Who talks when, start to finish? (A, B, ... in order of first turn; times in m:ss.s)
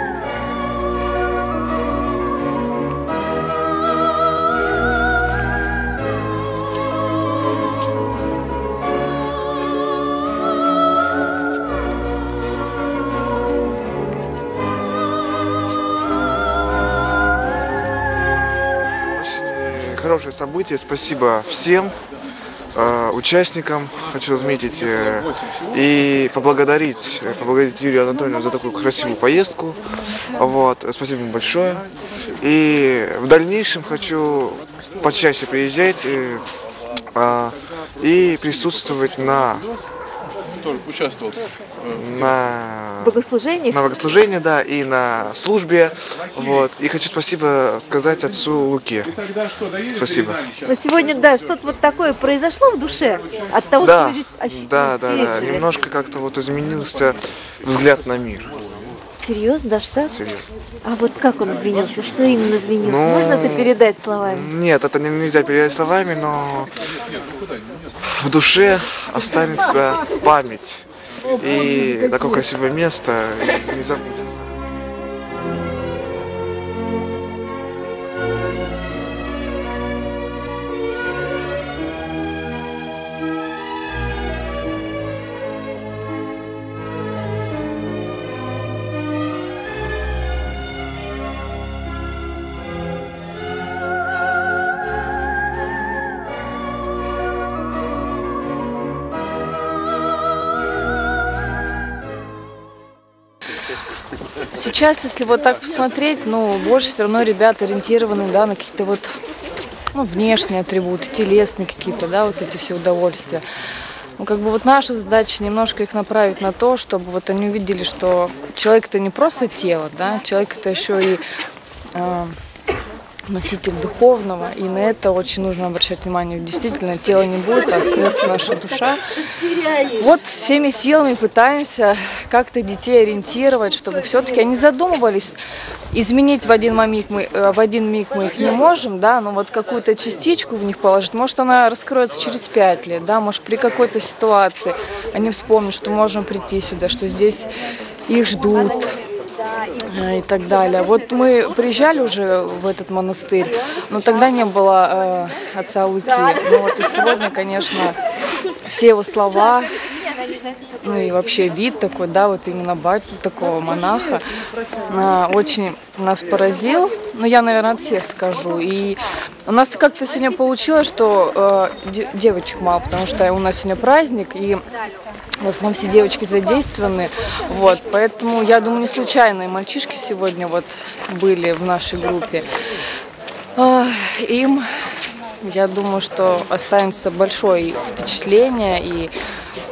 0:19.1-0:22.0 A
0:22.7-0:36.5 A
0:25.2-0:25.5 B
0:37.1-0:39.7 A
0:39.5-0:39.9 B
0:40.5-0:42.1 B
0:41.9-0:49.1 A
0:43.0-0:44.0 C
0:49.1-0:51.2 B
0:49.9-0:50.4 A
0:50.6-0:55.7 C
0:53.8-0:58.5 A
0:59.2-1:00.1 C
1:00.1-1:00.5 A
1:00.8-1:04.5 C
1:02.8-1:06.7 A
1:07.0-1:08.0 B
1:08.1-1:14.6 A
1:44.5-1:49.2 D
1:49.9-1:53.4 D
1:54.2-2:01.2 D
2:01.9-2:02.4 D
2:03.3-2:09.0 D
2:09.9-2:15.4 D
2:15.9-2:27.5 D
2:28.1-2:29.0 D
2:29.9-2:38.0 D
2:38.6-2:39.8 D
2:40.8-2:44.2 D
2:44.9-2:54.6 D
2:55.4-3:02.5 D
3:03.6-3:04.7 D
3:05.4-3:09.1 D